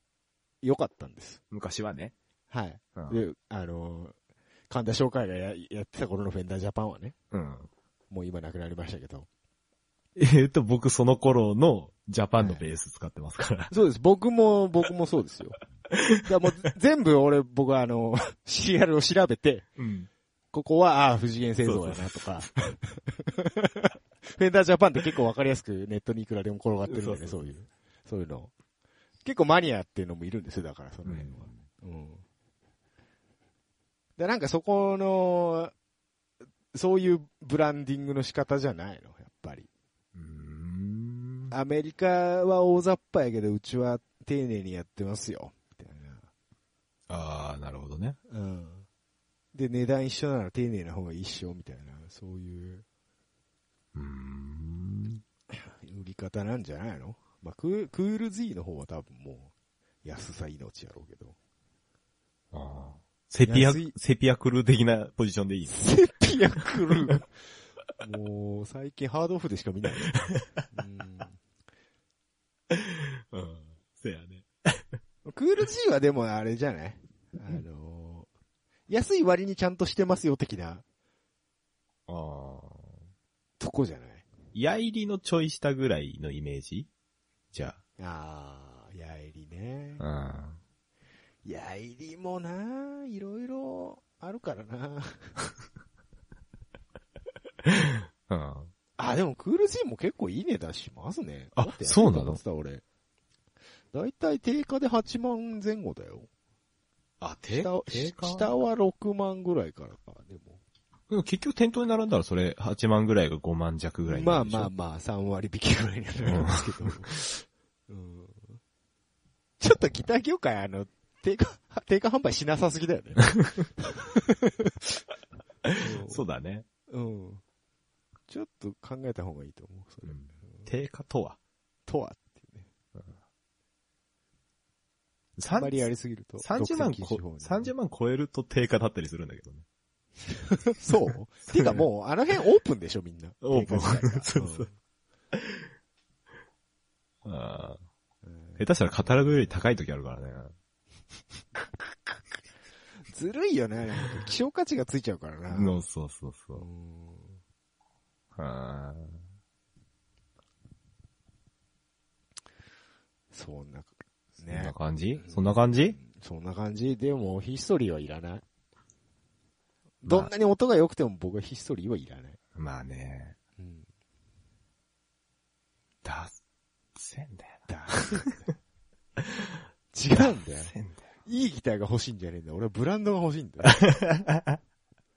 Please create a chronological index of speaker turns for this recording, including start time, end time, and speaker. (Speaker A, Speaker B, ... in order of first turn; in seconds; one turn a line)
Speaker A: 0.6-1.4
Speaker B: 1.5-2.1
Speaker A: 2.5-4.1
Speaker B: 2.9-3.2
Speaker A: 4.7-7.1
Speaker B: 7.3-7.7
Speaker A: 8.1-9.3
Speaker B: 10.2-13.7
Speaker A: 12.4-12.6
Speaker A: 13.7-15.6
Speaker B: 15.9-16.3
Speaker A: 16.2-19.7
Speaker B: 19.8-20.1
Speaker A: 20.5-28.5
Speaker B: 21.6-22.7
Speaker B: 26.9-27.5
Speaker A: 29.2-32.2
Speaker B: 31.0-31.6
Speaker A: 34.2-35.7
Speaker A: 36.7-39.7
Speaker B: 40.1-41.5
Speaker A: 41.5-46.2
Speaker B: 47.1-48.2
Speaker A: 48.3-48.9
Speaker A: 49.5-52.8
Speaker B: 53.9-55.2
Speaker A: 55.5-59.5
Speaker A: 60.0-61.4
Speaker B: 62.5-65.8
Speaker A: 63.4-63.9
Speaker A: 65.7-67.3
Speaker A: 68.0-71.4
Speaker B: 72.7-74.8
Speaker A: 75.2-78.3
Speaker A: 78.9-80.8
Speaker B: 82.1-83.0
Speaker A: 83.6-84.3
Speaker B: 84.5-86.9
Speaker B: 87.5-87.8
Speaker A: 88.0-90.0
Speaker B: 90.0-90.6
Speaker A: 91.4-95.3
Speaker B: 97.6-98.7
Speaker A: 99.0-102.8
Speaker B: 101.5-102.4
Speaker A: 103.9-106.3
Speaker B: 107.2-108.5
Speaker A: 107.5-110.6
Speaker B: 111.1-114.7
Speaker A: 114.0-118.6
Speaker B: 116.2-116.9
Speaker A: 119.6-125.0
Speaker B: 125.6-126.6
Speaker A: 125.8-126.2
Speaker A: 126.9-127.4
Speaker A: 128.3-130.7
Speaker B: 130.1-131.4
Speaker A: 131.9-132.7
Speaker B: 135.4-135.9
Speaker A: 135.5-137.7
Speaker B: 136.4-139.6
Speaker A: 140.3-144.7
Speaker B: 141.5-141.8
Speaker B: 143.4-144.7
Speaker B: 145.3-145.7
Speaker B: 147.2-147.8
Speaker A: 148.2-148.6
Speaker B: 148.6-150.5
Speaker A: 153.1-155.8
Speaker B: 155.5-156.6
Speaker A: 156.6-157.4
Speaker B: 158.3-159.2
Speaker A: 163.3-168.4
Speaker B: 164.5-166.0
Speaker A: 170.0-172.4
Speaker B: 170.0-170.3
Speaker B: 172.5-173.3
Speaker A: 173.6-173.8
Speaker B: 176.0-176.3
Speaker B: 176.9-178.3
Speaker A: 177.7-178.3
Speaker B: 179.2-179.5
Speaker A: 179.9-180.7
Speaker B: 180.1-181.1
Speaker A: 181.2-183.8
Speaker B: 183.7-184.6